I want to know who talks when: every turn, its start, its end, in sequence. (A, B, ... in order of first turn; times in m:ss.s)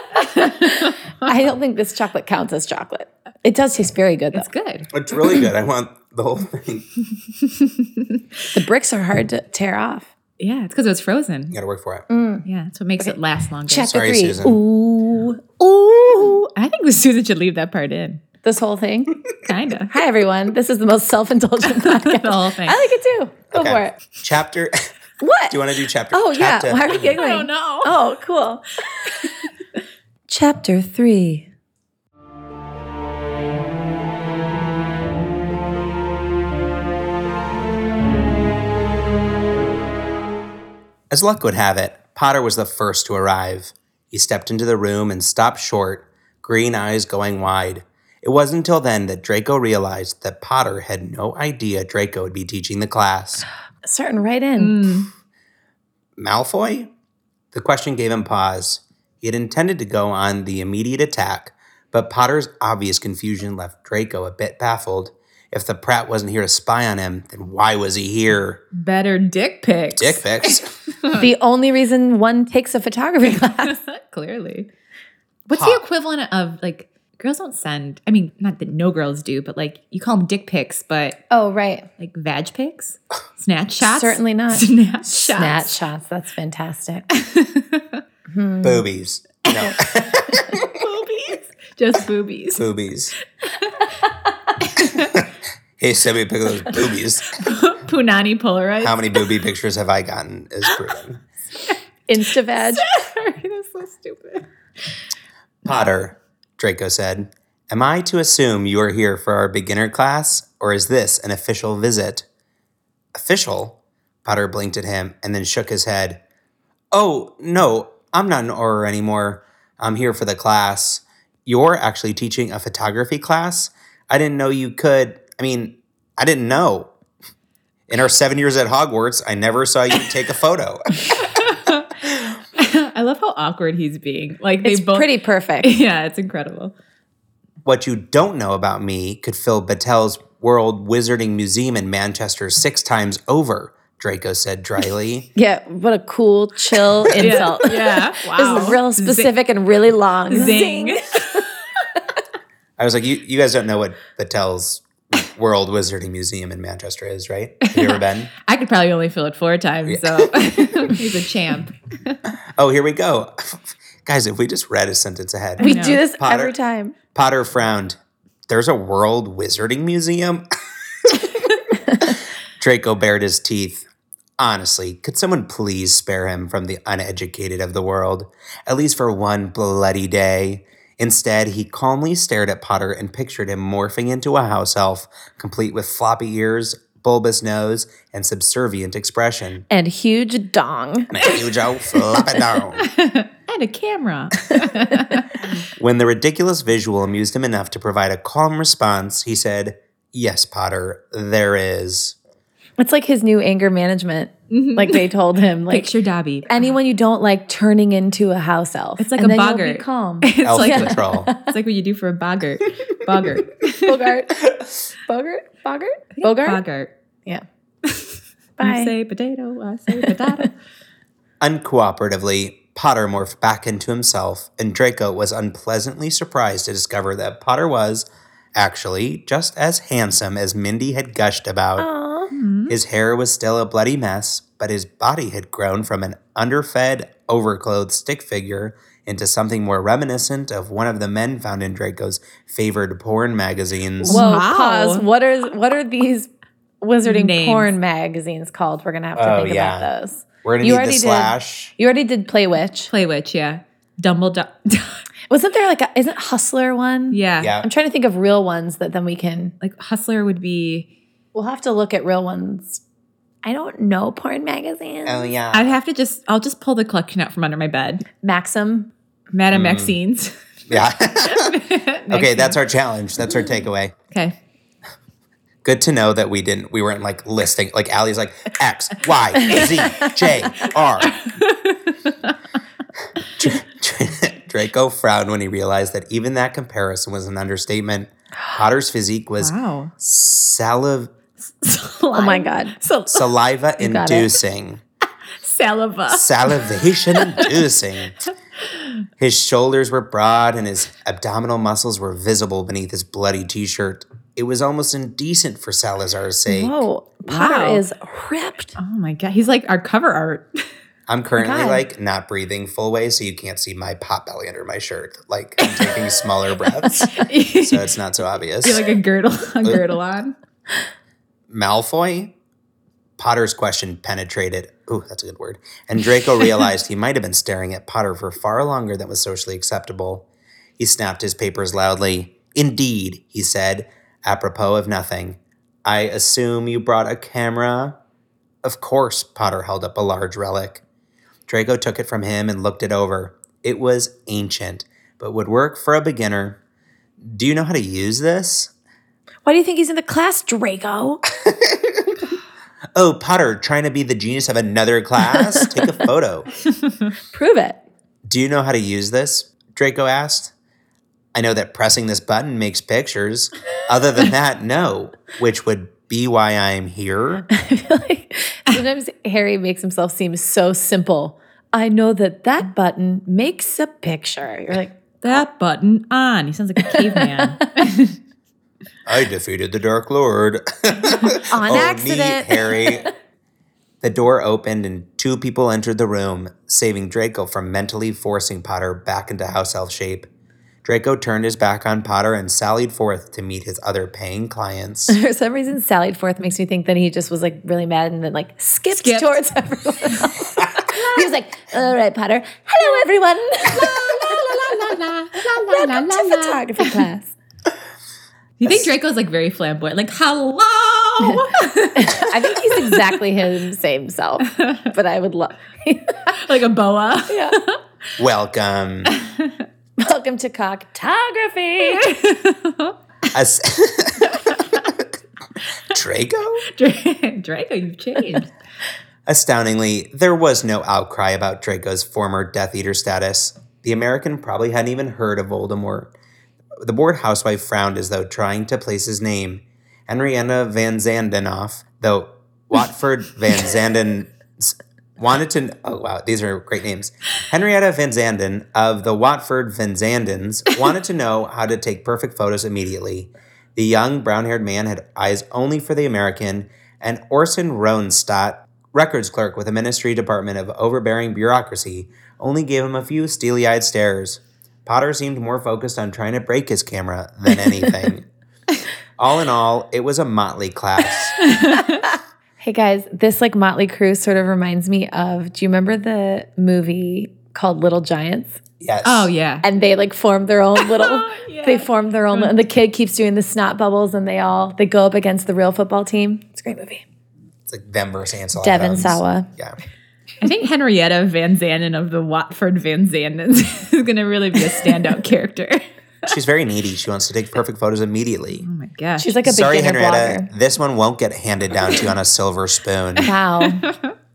0:00.1-0:04.5 A
0:00.4-0:01.3 B
0:04.3-0:04.9 B
0:04.9-0:06.8 C
0:07.4-0:08.2 B
0:08.5-0:10.1 A
0:10.4-0:11.6 B
0:11.5-0:12.0 C
0:12.1-0:12.5 A
0:12.4-0:13.9 B
0:13.7-0:16.4 A
0:13.9-0:14.6 C
0:16.1-0:18.2 B
0:18.4-0:19.2 A
0:19.4-0:19.9 B
0:19.9-0:24.0 A
0:21.6-0:22.8 B
0:23.5-0:24.9 C
0:25.2-0:25.6 A
0:25.5-0:27.2 C
0:26.1-0:29.2 A
0:27.2-0:27.9 B
0:30.3-0:31.5 A
0:41.1-0:53.4 C
0:53.8-0:55.0 A
0:54.6-0:55.1 B
0:56.2-0:56.9 C
0:57.5-1:08.6 C
1:08.7-1:11.3 B
1:09.9-1:10.7 C
1:11.2-1:13.8 A
1:13.6-1:14.7 B
1:15.5-1:21.2 B
1:15.5-1:15.8 C
1:21.3-1:21.9 A
1:22.0-1:25.7 B
1:23.8-1:27.1 A
1:27.1-1:28.0 B
1:28.3-1:28.8 A
1:28.6-1:30.8 C
1:30.5-1:32.6 B
1:32.5-1:33.1 C
1:33.6-1:33.8 B
1:34.6-1:35.2 B
1:34.9-1:35.3 C
1:35.8-1:37.4 C
1:37.4-1:39.3 B
1:38.8-1:41.2 C
1:42.1-1:42.8 A
1:42.6-1:44.4 B
1:45.6-1:52.2 C
1:53.1-1:56.2 C
1:56.9-2:06.9 C
2:07.9-2:11.1 C
2:11.2-2:15.1 B
2:14.6-2:15.7 A
2:15.6-2:16.7 B
2:17.6-2:25.3 C
2:25.4-2:31.1 A
2:27.1-2:27.4 C
2:27.2-2:29.3 B
2:30.3-2:31.5 B
2:32.8-2:38.3 C
2:37.6-2:42.2 B
2:39.8-2:40.5 C
2:42.6-2:46.5 C
2:45.6-2:46.0 B
2:45.6-2:47.0 A
2:47.1-2:48.0 C
2:48.5-2:50.4 C
2:51.0-2:51.4 C
2:52.0-2:53.8 C
2:54.4-3:09.7 C
3:09.7-3:11.3 A
3:11.1-3:12.9 C
3:12.8-3:15.4 B
3:15.8-3:22.2 C
3:22.8-3:25.9 A
3:24.5-3:25.0 B
3:25.7-3:26.6 B
3:26.5-3:31.5 A
3:29.0-3:34.1 B
3:30.4-3:31.3 C
3:33.8-3:34.4 A
3:35.0-3:36.6 A
3:36.2-3:36.9 B
3:37.8-3:40.5 B
3:38.6-3:38.9 A
3:39.9-3:40.4 A
3:41.4-3:51.9 C
3:51.8-3:52.3 A
3:52.3-3:52.7 B
3:52.7-4:04.3 C
4:04.0-4:05.0 B
4:04.0-4:06.3 A
4:06.8-4:12.9 A
4:07.0-4:07.7 B
4:09.2-4:09.9 C
4:10.4-4:11.7 C
4:12.9-4:15.0 B
4:15.3-4:19.5 A
4:17.1-4:17.5 B
4:17.4-4:17.7 C
4:19.6-4:20.9 B
4:21.3-4:22.8 A
4:23.4-4:25.3 A
4:25.0-4:25.8 C
4:25.5-4:28.0 B
4:28.2-4:28.9 A
4:29.3-4:30.3 B
4:29.5-4:29.9 C
4:30.7-4:33.9 C
4:31.2-4:32.6 B
4:34.1-4:34.4 B
4:35.6-4:41.2 C
4:39.4-4:42.3 B
4:43.4-4:51.1 C
4:49.4-4:49.9 B
4:51.5-4:53.3 B
4:52.1-4:52.8 A
4:53.1-4:54.8 C
4:53.8-4:54.3 A
4:55.4-4:57.6 B
4:56.1-4:58.2 C
4:59.2-5:06.8 C
5:06.5-5:08.7 A
5:07.3-5:07.8 B
5:08.8-5:10.6 B
5:11.1-5:18.8 C
5:11.4-5:11.8 A
5:15.6-5:16.0 B
5:17.1-5:17.9 B
5:18.6-5:20.3 B
5:21.5-5:22.3 C
5:23.2-5:30.2 C
5:30.8-5:38.0 C
5:38.6-5:40.8 C
5:41.5-5:46.6 C
5:47.2-5:48.7 C
5:49.4-5:51.2 A
5:51.4-5:52.1 C
5:52.9-5:56.5 C
5:57.3-5:57.8 A
5:58.2-6:00.5 C
6:01.3-6:07.5 C
6:07.5-6:15.0 A
6:15.2-6:18.2 B
6:17.2-6:17.6 A
6:19.0-6:23.1 C
6:21.5-6:23.1 A
6:24.0-6:30.3 C
6:30.8-6:35.2 C
6:35.1-6:44.8 A
6:38.9-6:39.4 B
6:43.7-6:46.9 B
6:45.4-6:47.3 A
6:48.6-6:53.1 B
6:51.2-6:56.3 A
6:56.3-6:57.8 B
6:57.3-6:57.6 A
6:58.2-6:59.1 C
6:59.1-6:59.6 B
7:00.0-7:02.2 A
7:02.0-7:03.0 B
7:03.3-7:05.1 C
7:05.9-7:06.7 C
7:06.7-7:08.5 B
7:09.3-7:16.1 C
7:16.8-7:48.3 C
7:49.2-7:51.4 C
7:51.4-7:52.0 B
7:52.6-7:58.6 A
7:58.8-7:59.3 C
7:59.0-7:59.6 B
7:59.6-8:07.0 A
8:00.8-8:02.6 B
8:07.7-8:09.8 C
8:08.6-8:09.5 A
8:10.4-8:15.8 B
8:16.3-8:18.6 C
8:18.6-8:19.4 B
8:19.2-8:20.5 A
8:19.4-8:23.3 C
8:23.2-8:23.9 A
8:23.6-8:24.1 B